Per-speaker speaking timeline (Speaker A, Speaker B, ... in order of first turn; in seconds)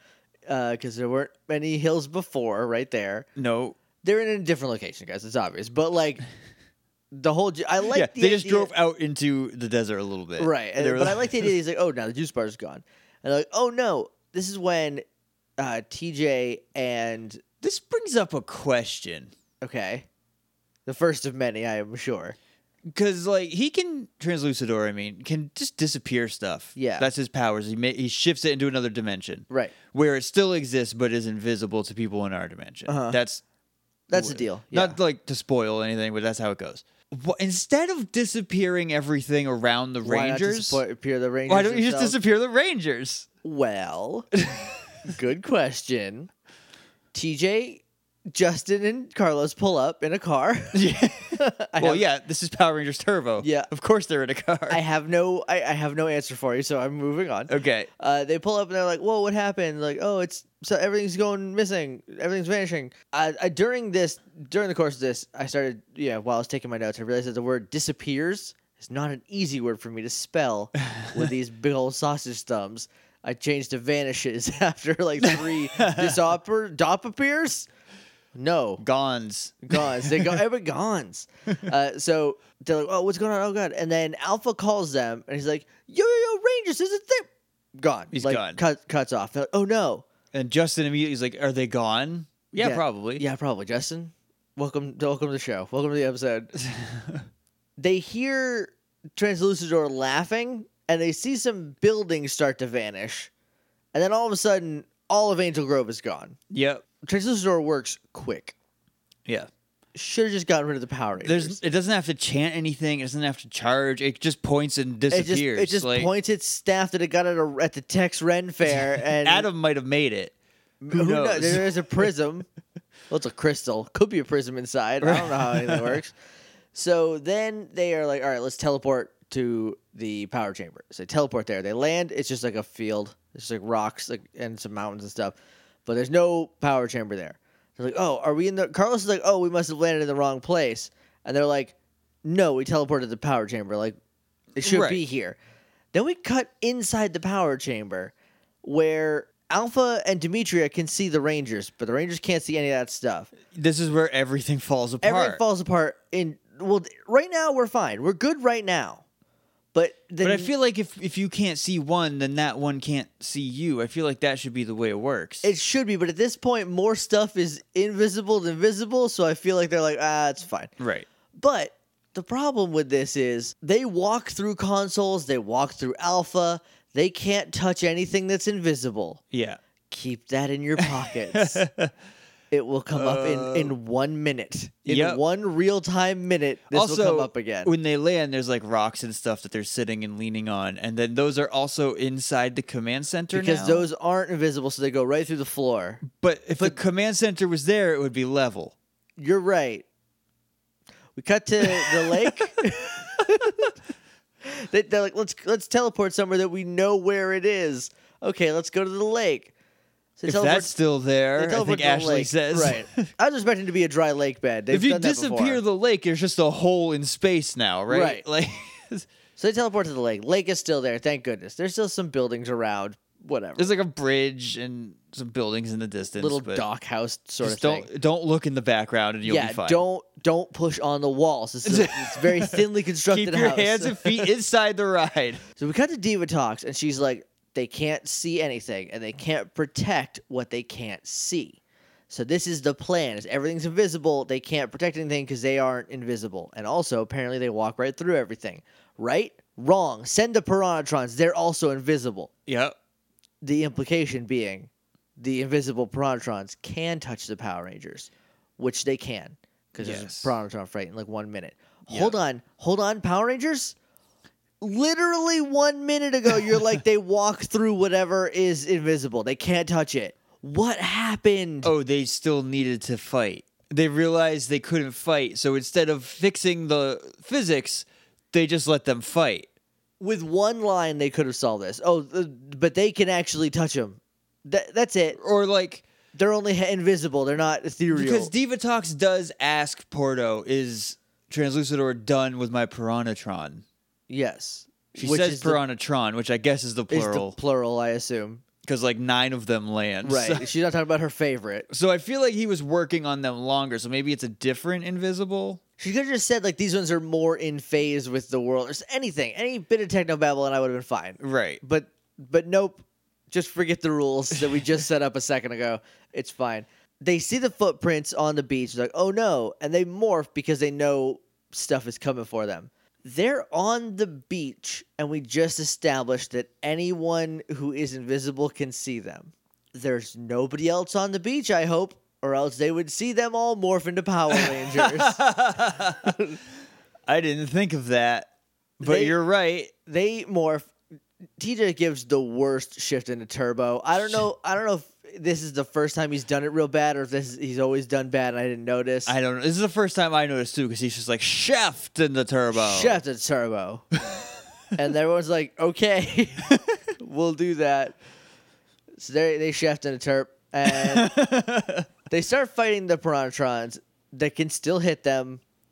Speaker A: 0.5-3.3, 4.0-6.2, 7.1-8.7, 10.4-15.0, 15.6-17.4, 19.6-20.1, 20.9-22.4, 26.8-27.1, 32.9-33.2, 34.1-35.0, 40.0-42.2, 43.4-44.3, 45.0-46.3, 47.1-52.0, 53.4-53.7, 54.7-77.7, 78.3-78.8, 79.7-90.0, 92.6-96.5, 97.8-103.3, 103.9-106.4, 107.0-108.5, 110.0-111.6, 115.1-119.5, 120.8-122.5, 123.1-126.1, 126.7-135.3, 135.9-144.0, 144.6-145.4, 145.9-153.3, 155.0-159.0, 159.7-160.5, 165.4-170.7, 171.3-179.2, 179.9-181.6, 182.5-187.7, 193.3-196.0, 199.2-199.8, 201.2-203.7, 204.4-209.5, 210.2-210.7, 211.4-215.6, 217.9-218.2, 219.4-223.7, 226.2-227.9, 229.2-234.3, 235.6-252.3, 253.4-263.8, 264.6-271.7, 280.0-285.2, 286.1-288.3, 294.1-295.6, 296.9-298.4, 300.0-301.7, 305.8-335.2, 336.0-336.4, 338.8-339.2, 339.9-340.7, 341.4-349.1, 352.5-353.9, 354.8-356.5, 357.0-358.0, 359.0-361.2, 362.1-365.4
Speaker B: 3.4-3.8, 7.9-11.5, 17.6-19.3, 22.9-33.4, 34.1-40.8, 41.5-43.3, 44.4-44.7, 50.7-54.8, 57.5-57.9, 75.2-76.2, 78.8-80.4, 88.1-88.6, 90.3-93.2, 96.6-97.2, 106.5-106.8, 111.2-116.1, 118.8-120.3, 120.9-122.1, 125.0-126.0, 144.6-145.0, 153.5-155.4, 160.2-165.5, 170.8-171.1, 179.3-179.6, 181.3-181.9, 182.9-183.7, 184.9-185.2, 186.7-193.9, 196.0-198.7, 201.7-202.5, 210.3-213.1, 214.7-219.1, 223.6-226.7, 227.4-229.8, 231.7-235.4, 252.5-252.8, 259.8-260.3, 261.9-262.2, 271.6-279.5, 285.2-285.8, 287.9-293.6, 294.9-297.4, 298.6-300.5, 301.7-305.6, 311.2-311.6, 334.3-336.1, 337.1-339.7, 349.1-353.0, 360.7-361.9